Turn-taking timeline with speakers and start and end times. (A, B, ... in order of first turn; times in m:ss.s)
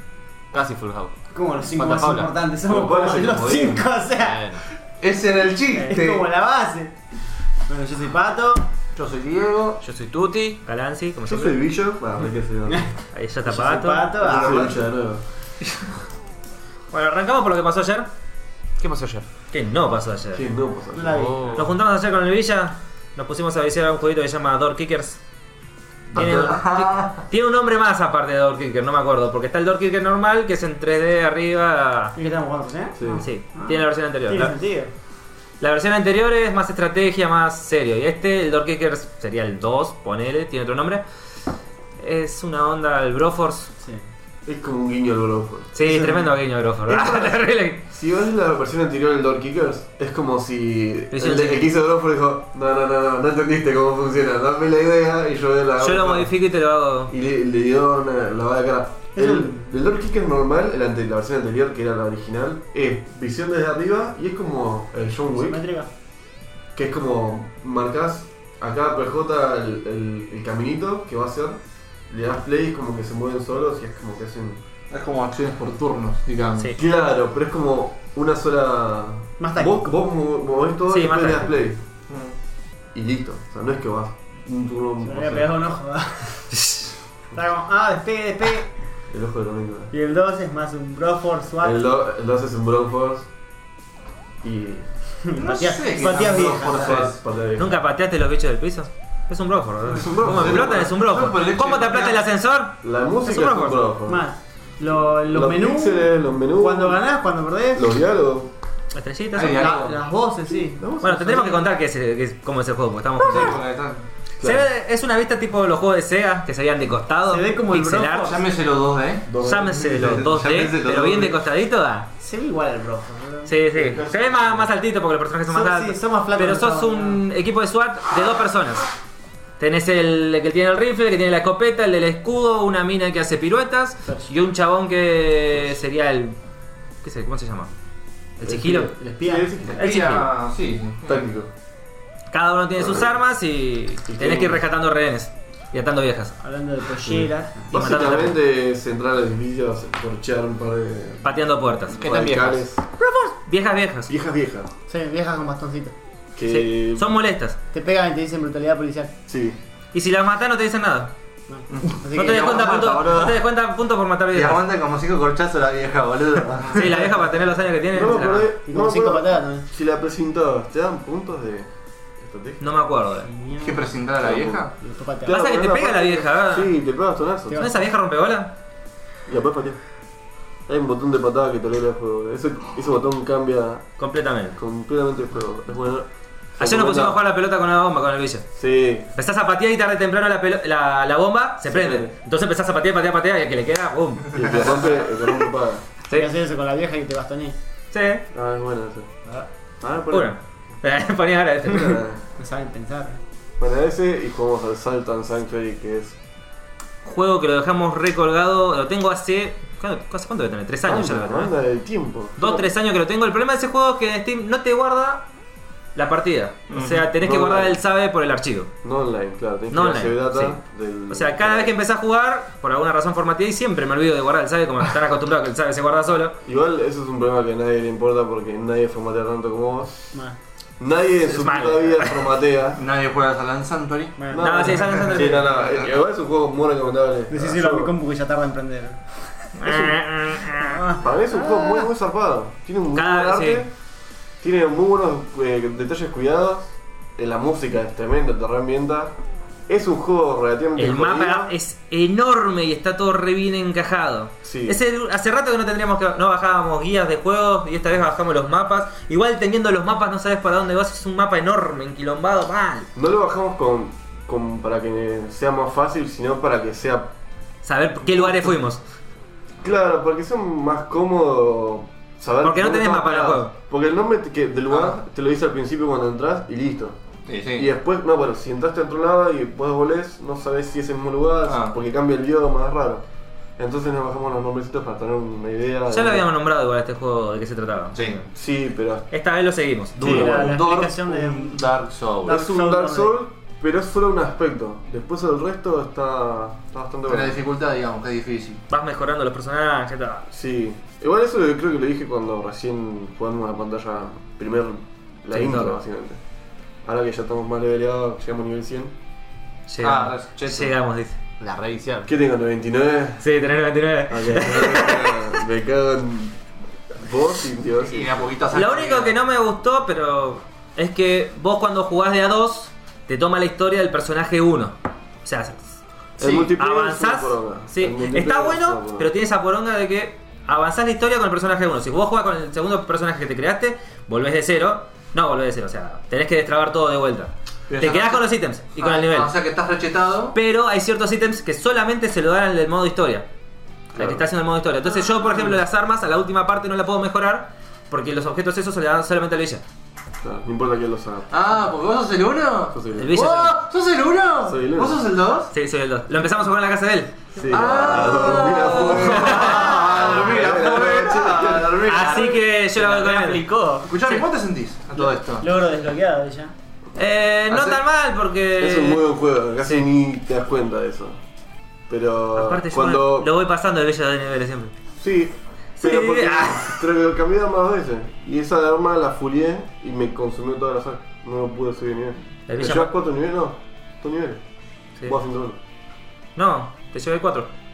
0:00.5-0:01.2 A
0:01.3-0:04.4 B
0:01.8-0:02.3 A
0:02.7-0:03.9 C
0:04.2-0:04.6 A
0:05.0-0:06.3 D
0:05.7-0:07.0 B
0:07.7-0:08.7 B
0:09.0-0:09.8 D
0:09.8-0:10.6 A
0:10.7-0:11.6 E
0:11.2-0:12.8 C
0:13.1-0:14.2 E
0:13.4-0:14.8 B
0:14.2-0:15.2 C
0:16.9-0:18.1 E
0:18.8-0:19.3 A
0:19.5-0:20.4 E
0:20.3-0:21.6 C
0:20.9-0:21.6 B
0:21.1-0:21.6 A
0:21.6-0:25.2 E
0:26.1-0:27.2 D
0:26.1-0:32.2 E
0:32.2-0:34.9 B
0:33.0-0:33.2 C
0:33.2-0:34.6 E
0:35.6-0:41.0 E
0:42.0-0:43.7 E
0:44.5-0:56.3 C
0:45.7-0:47.8 E
0:51.1-0:51.6 E
0:55.8-0:57.1 E
0:57.1-1:05.6 C
0:59.2-0:59.7 B
1:05.4-1:05.9 B
1:06.8-1:11.6 C
1:12.1-1:14.6 C
1:14.9-1:16.7 D
1:16.8-1:21.8 C
1:19.4-1:19.9 B
1:20.9-1:21.6 E
1:22.1-1:22.4 D
1:22.9-1:25.5 C
1:25.0-1:26.5 B
1:27.3-1:28.7 B
1:29.1-1:29.9 C
1:29.9-1:31.8 B
1:31.6-1:33.3 C
1:34.4-1:34.9 C
1:35.2-1:37.1 B
1:35.4-1:37.2 D
1:36.7-1:37.8 C
1:37.6-1:43.9 E
1:39.9-1:40.9 C
1:40.0-1:42.2 D
1:42.8-1:44.3 C
1:44.1-1:47.9 B
1:45.3-1:47.0 C
1:47.8-1:48.5 C
1:48.9-1:49.9 E
1:49.4-1:50.0 D
1:49.4-1:50.8 B
1:50.8-1:51.6 C
1:51.0-1:53.6 E
1:53.2-1:54.0 D
1:54.4-1:54.7 C
1:54.4-1:58.4 E
1:57.3-1:58.4 B
1:58.3-1:59.3 D
1:59.3-2:01.4 C
1:59.4-2:02.1 E
2:02.2-2:03.5 B
2:03.5-2:08.8 E
2:03.7-2:04.7 C
2:05.5-2:07.2 B
2:09.6-2:16.4 E
2:17.0-2:17.7 E
2:18.4-2:18.9 E
2:18.4-2:19.9 C
2:18.9-2:19.5 B
2:19.7-2:21.3 D
2:19.8-2:20.3 E
2:21.0-2:21.5 C
2:22.3-2:26.4 E
2:22.8-2:23.1 C
2:24.1-2:24.6 C
2:26.4-2:27.7 B
2:27.0-2:31.4 C
2:27.7-2:28.4 E
2:31.2-2:32.0 E
2:31.9-2:32.9 C
2:32.0-2:32.6 A
2:33.5-2:34.1 E
2:34.1-2:34.7 C
2:34.9-2:36.0 B
2:36.4-2:37.2 C
2:36.5-2:37.6 E
2:37.7-2:39.1 B
2:39.3-2:39.6 C
2:39.9-2:41.1 E
2:41.5-2:43.0 B
2:41.7-2:43.0 D
2:42.0-2:44.6 E
2:42.3-2:43.3 A
2:44.3-2:47.1 D
2:46.7-2:48.5 E
2:47.9-2:52.6 C
2:48.7-2:49.7 B
2:52.6-2:53.3 E
2:53.2-2:53.9 B
2:53.6-2:54.8 D
2:54.2-2:54.6 C
2:54.8-2:55.5 B
2:55.3-2:57.7 C
2:55.3-2:56.7 E
2:57.5-2:57.8 B
2:57.6-2:58.5 E
2:59.3-2:59.8 C
3:00.7-3:03.9 C
3:04.0-3:04.6 E
3:04.6-3:07.2 C
3:06.6-3:08.5 E
3:08.6-3:09.1 C
3:09.2-3:14.7 E
3:11.7-3:12.1 C
3:14.3-3:15.9 C
3:16.1-3:17.6 B
3:17.9-3:18.2 E
3:18.3-3:19.1 C
3:19.8-3:20.3 C
3:20.1-3:22.0 E
3:21.6-3:22.2 C
3:22.4-3:23.2 B
3:23.6-3:26.2 C
3:27.0-3:31.5 E
3:30.8-3:32.7 C
3:32.4-3:35.3 E
3:36.0-3:38.7 E
3:36.7-3:37.1 D
3:37.2-3:37.8 C
3:38.8-3:41.7 C
3:39.7-3:40.6 E
3:41.1-3:46.4 E
3:46.4-3:50.2 C
3:50.8-3:52.8 C
3:51.3-3:52.2 E
3:52.8-3:55.9 D
3:54.2-3:54.6 B
3:54.3-3:57.9 C
3:54.4-3:55.7 E
3:57.3-4:01.9 B
3:59.6-4:00.9 E
4:01.0-4:03.7 C
4:02.9-4:03.6 E
4:04.4-4:09.1 C
4:09.7-4:11.6 C
4:10.8-4:22.9 E
4:14.4-4:14.8 C
4:23.0-4:27.1 C
4:27.6-4:28.8 E
4:28.1-4:28.4 C
4:29.6-4:37.0 C
4:32.4-4:33.5 E
4:34.7-4:35.0 D
4:37.3-4:37.7 D
4:37.6-4:43.0 C
4:41.5-4:41.8 D
4:43.6-4:46.3 C
4:45.9-4:48.2 E
4:48.4-4:49.1 C
4:49.1-4:50.6 E
4:50.0-4:51.7 B
4:50.0-4:52.4 D
4:52.3-4:53.2 B
4:52.3-4:57.4 C
4:57.1-4:58.6 D
4:58.7-5:00.2 E
5:00.3-5:06.2 C
5:05.3-5:05.8 E
5:06.8-5:09.0 C
5:09.7-5:11.2 E
5:09.8-5:10.8 D
5:11.4-5:12.1 A
5:12.0-5:13.3 C
5:13.2-5:15.4 E
5:14.1-5:16.4 C
5:16.9-5:18.3 C
5:17.9-5:19.2 D
5:18.5-5:25.8 E
5:26.2-5:29.1 C
5:26.2-5:26.5 D
5:26.4-5:39.3 E
5:37.7-5:40.4 D
5:40.3-5:43.3 E
5:43.9-5:44.2 C
5:44.0-5:49.6 E
5:50.2-5:51.4 C
5:51.3-5:55.5 D
5:52.7-5:53.2 C
5:53.0-5:53.6 E
5:54.4-5:55.0 C
5:55.5-5:57.3 E
5:57.4-5:58.5 B
5:57.4-6:02.0 C
5:57.5-6:02.4 D
5:58.5-6:00.2 E
6:01.8-6:03.5 E
6:02.8-6:03.9 A
6:03.2-6:03.8 B
6:03.9-6:05.5 D
6:05.0-6:06.5 B
6:07.0-6:09.0 E
6:07.5-6:07.8 D
6:08.6-6:11.2 C
6:11.9-6:13.3 C
6:12.4-6:14.7 E
6:15.0-6:24.4 C
6:15.8-6:16.8 E
6:22.5-6:22.9 E
6:25.0-6:25.6 C
6:26.4-6:27.5 E